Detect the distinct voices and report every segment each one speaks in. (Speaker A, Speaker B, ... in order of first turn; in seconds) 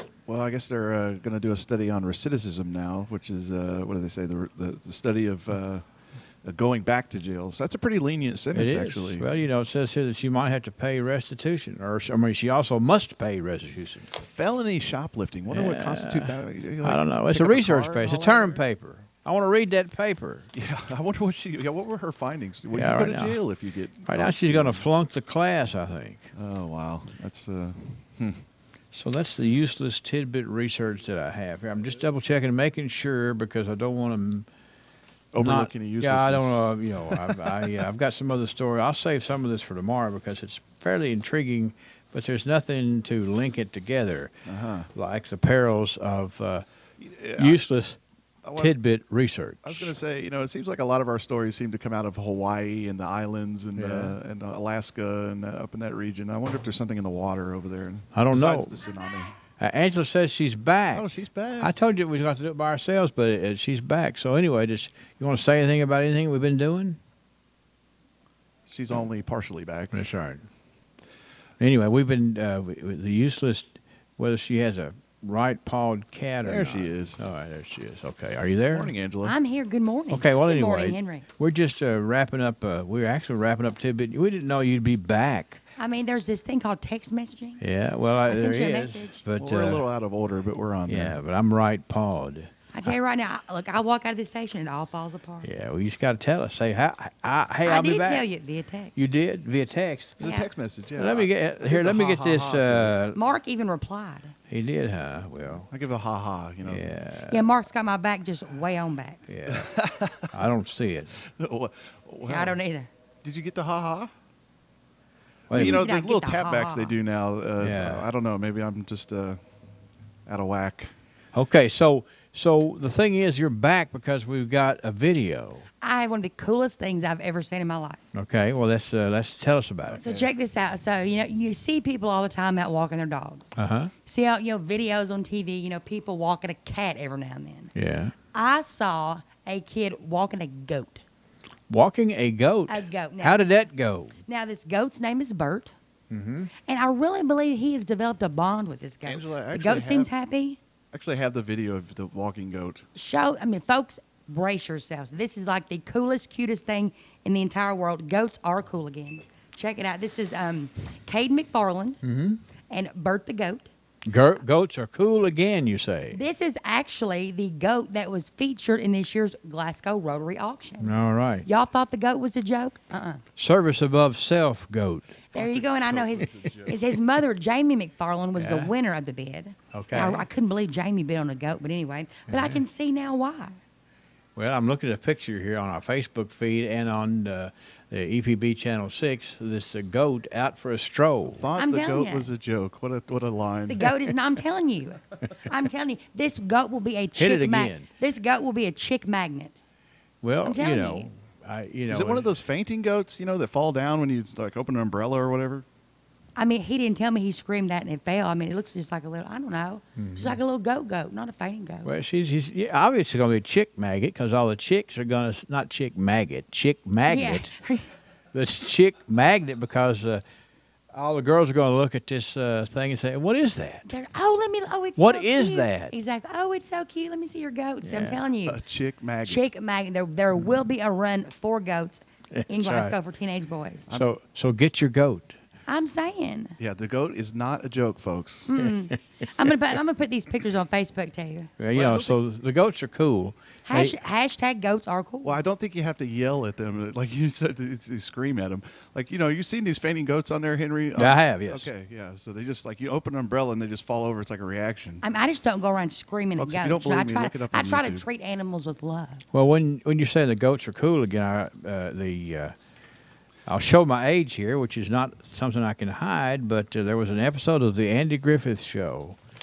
Speaker A: 0.3-5.8, 6.4-9.3, 14.1-18.6, 20.5-24.9, 26.3-28.4, 35.3-37.5, 44.5-44.9, 47.0-47.6, 48.4-48.7, 49.6-59.4, 60.9-61.7, 68.7-70.0, 76.4-77.2, 78.7-79.3, 89.4-91.2, 100.2-103.0, 105.7-106.9, 109.5-110.3, 111.4-112.6, 113.2-114.1, 115.5-119.4, 120.2-120.9, 129.9-130.3, 149.0-150.1, 150.9-152.8, 175.3-176.8, 191.3-194.1, 201.9-205.6, 228.4-229.4, 236.6-238.5, 241.7-242.2, 245.2-255.0, 256.4-258.0
Speaker B: 8.5-14.1, 15.5-20.5, 22.7-23.4, 24.1-26.3, 28.9-34.5, 35.4-44.3, 44.9-46.6, 47.4-48.0, 48.5-49.9, 53.8-54.1, 58.1-58.7, 59.6-61.0, 61.6-67.0, 69.9-70.4, 71.6-78.9, 80.1-85.6, 87.6-89.8, 90.9-92.5, 95.4-98.2, 99.0-100.2, 101.0-103.2, 104.5-105.7, 106.6-107.4, 109.3-109.7, 110.3-111.1, 115.5-115.9, 117.6-118.0, 121.3-125.7, 128.1-130.0, 133.6-133.9, 137.7-138.1, 141.7-144.1, 146.1-146.5, 162.0-162.4, 164.1-166.2, 170.8-171.4, 173.4-175.1, 178.3-178.7, 179.7-180.2, 182.3-182.6, 184.3-191.4, 197.2-197.9, 200.2-202.3, 209.9-210.4, 211.8-217.5, 218.3-220.2, 220.9-223.9, 225.0-225.9, 227.8-228.2, 232.3-232.9, 233.9-235.3, 241.6-244.0, 251.0-251.7, 259.3-262.5, 263.5-269.2
Speaker C: 79.2-81.3, 85.8-87.6, 88.2-89.2, 92.7-95.5, 97.6-98.9, 100.2-100.5, 103.1-104.3, 107.3-109.2, 112.2-112.9, 115.5-116.9, 125.8-128.0, 130.0-137.7, 138.3-141.0, 142.7-143.7, 144.3-145.7, 146.7-150.6, 152.9-162.0, 162.7-163.7, 166.1-170.9, 171.4-173.2, 175.3-183.6, 191.6-192.3, 193.7-199.6, 200.4-201.1, 206.3-211.9, 217.1-217.9, 223.9-228.6, 229.2-233.9, 235.7-236.6, 238.5-241.5, 243.7-245.4, 255.0-259.2